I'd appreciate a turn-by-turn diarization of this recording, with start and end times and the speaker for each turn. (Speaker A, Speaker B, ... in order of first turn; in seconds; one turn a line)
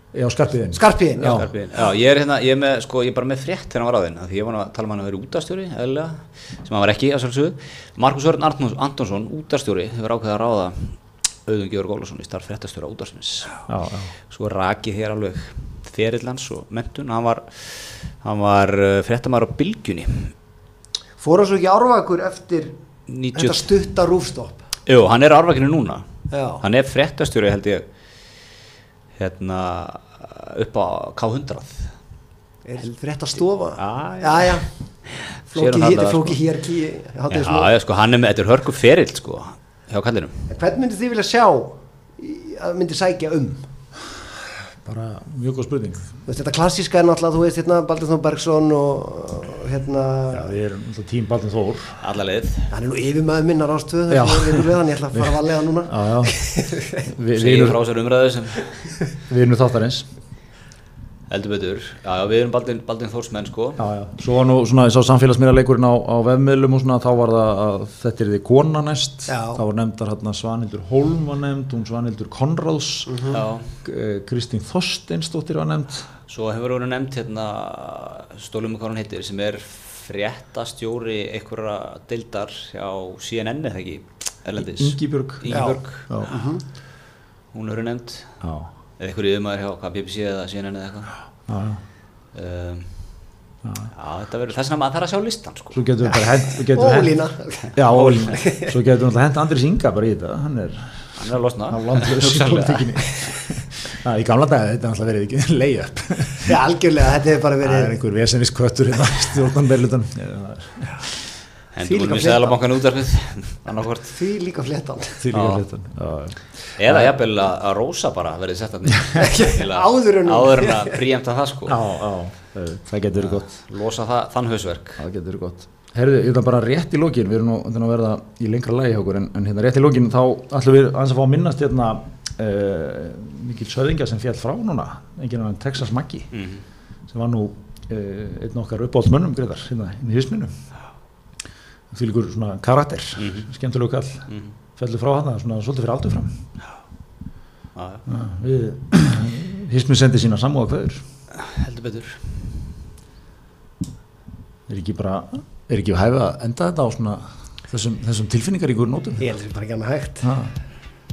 Speaker A: 0.1-1.5
Speaker B: 0.7-1.5
Speaker C: 1.2-13.6
Speaker A: 13.7-14.1
Speaker C: 14.3-20.3
Speaker B: 21.2-22.7
Speaker C: 23.1-23.7
Speaker B: 23.3-24.6
Speaker C: 24.9-26.1
Speaker B: 26.3-26.6
Speaker C: 26.6-27.9
Speaker C: 29.2-31.9
Speaker B: 32.6-34.7
Speaker C: 33.8-34.7
Speaker C: 35.5-36.4
Speaker B: 35.5-37.7
Speaker C: 37.3-40.5
Speaker B: 40.5-43.7
Speaker A: 44.9-46.1
Speaker B: 46.3-50.5
Speaker A: 50.3-52.0
Speaker C: 52.0-52.7
Speaker B: 52.7-57.1
Speaker A: 54.1-55.3
Speaker A: 55.9-56.3
Speaker A: 57.1-57.8
Speaker C: 57.3-58.9
Speaker A: 59.3-60.1
Speaker C: 61.3-63.8
Speaker A: 63.8-76.1
Speaker B: 69.3-69.6
Speaker B: 73.1-73.4
Speaker C: 73.3-73.7
Speaker C: 76.3-86.3
Speaker A: 84.6-86.3
Speaker B: 85.5-86.6
Speaker C: 87.5-88.4
Speaker A: 88.4-88.7
Speaker C: 89.0-91.1
Speaker A: 91.5-91.8
Speaker C: 92.3-93.1
Speaker A: 93.7-93.9
Speaker C: 94.0-95.8
Speaker A: 95.7-97.1
Speaker B: 96.7-98.7
Speaker A: 97.8-101.2
Speaker C: 98.0-98.3
Speaker C: 101.2-103.0
Speaker A: 101.7-106.5
Speaker B: 106.5-108.0
Speaker A: 107.6-111.2
Speaker C: 111.7-114.2
Speaker B: 111.8-112.6
Speaker B: 114.1-115.2
Speaker A: 115.2-117.1
Speaker C: 115.3-115.6
Speaker C: 116.8-121.8
Speaker B: 119.2-121.0
Speaker A: 121.7-123.5
Speaker C: 123.2-125.0
Speaker A: 125.0-136.3
Speaker C: 136.3-136.6
Speaker A: 137.1-140.6
Speaker A: 141.9-144.3
Speaker C: 143.2-143.5
Speaker C: 144.3-144.5
Speaker A: 144.8-146.4
Speaker C: 147.8-148.1
Speaker A: 148.1-151.1
Speaker C: 151.3-152.5
Speaker A: 154.7-159.2
Speaker B: 159.2-160.3
Speaker A: 160.2-160.5